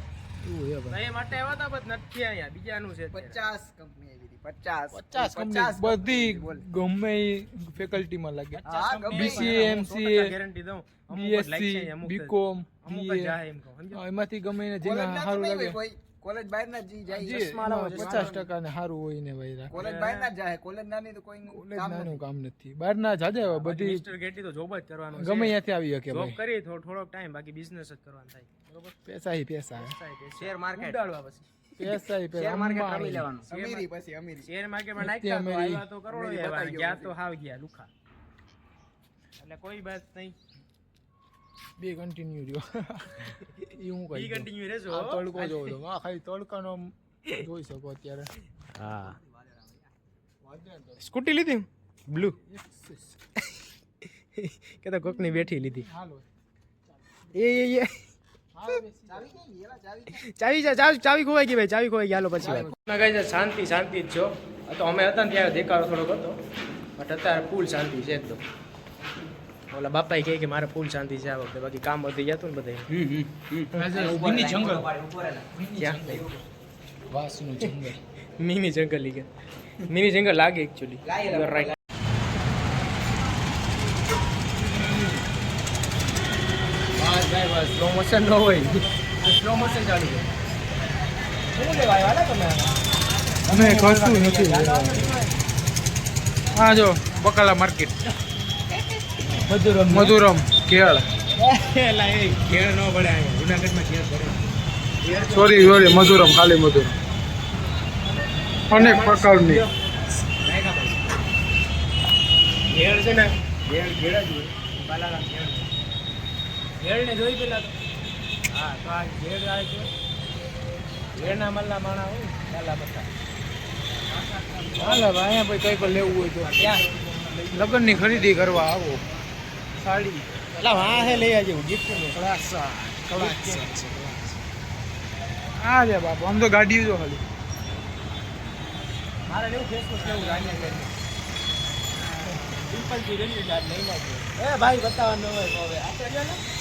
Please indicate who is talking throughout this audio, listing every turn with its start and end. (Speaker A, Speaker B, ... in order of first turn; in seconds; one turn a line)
Speaker A: 0.4-1.0
Speaker B: 0.9-3.4
Speaker C: 3.1-6.6
Speaker A: 4.9-10.3
Speaker B: 8.6-14.0
Speaker C: 8.7-9.7
Speaker A: 11.1-13.3
Speaker A: 13.9-15.8
Speaker C: 14.8-18.3
Speaker B: 17.1-18.5
Speaker A: 17.2-19.7
Speaker C: 19.7-22.2
Speaker B: 19.7-20.3
Speaker A: 21.5-24.0
Speaker B: 23.4-25.6
Speaker A: 25.1-26.4
Speaker B: 26.1-28.9
Speaker A: 29.0-29.9
Speaker B: 29.8-31.7
Speaker C: 30.4-31.0
Speaker A: 31.8-33.3
Speaker C: 32.3-34.5
Speaker B: 33.5-33.9
Speaker B: 34.4-37.9
Speaker A: 35.0-35.9
Speaker C: 36.1-37.1
Speaker B: 39.4-40.4
Speaker A: 41.8-48.3
Speaker B: 44.1-45.6
Speaker B: 48.8-49.2
Speaker C: 49.3-49.7
Speaker A: 50.5-50.9
Speaker B: 51.0-52.4
Speaker A: 52.5-53.1
Speaker B: 54.4-55.9
Speaker A: 55.3-56.2
Speaker B: 57.3-57.9
Speaker A: 58.5-59.3
Speaker C: 59.1-60.2
Speaker B: 60.1-66.4
Speaker A: 62.4-62.8
Speaker B: 67.0-68.4
Speaker B: 69.7-72.9
Speaker A: 73.0-74.9
Speaker C: 73.5-75.5
Speaker A: 75.5-76.4
Speaker B: 75.8-76.3
Speaker A: 77.1-78.0
Speaker B: 78.4-79.3
Speaker B: 79.8-81.7
Speaker C: 81.1-81.7
Speaker B: 84.7-85.2
Speaker B: 86.9-90.3
Speaker B: 91.5-92.7
Speaker B: 93.5-95.4
Speaker A: 93.5-95.1
Speaker A: 96.5-98.0
Speaker B: 99.2-100.2
Speaker A: 99.8-101.1
Speaker B: 101.4-104.4
Speaker B: 105.0-106.3
Speaker A: 105.3-107.0
Speaker A: 108.7-109.6
Speaker B: 108.7-109.7
Speaker B: 110.4-111.0
Speaker B: 112.7-115.8
Speaker B: 116.8-117.7
Speaker B: 118.5-119.9
Speaker B: 121.1-123.1
Speaker B: 124.4-125.0
Speaker A: 124.8-126.6
Speaker B: 125.6-128.0
Speaker A: 127.5-129.0
Speaker C: 127.9-128.6
Speaker A: 129.8-131.2
Speaker B: 130.6-132.2
Speaker A: 132.1-134.3
Speaker B: 133.1-133.9
Speaker A: 135.6-137.2
Speaker B: 139.3-140.9
Speaker B: 142.2-146.4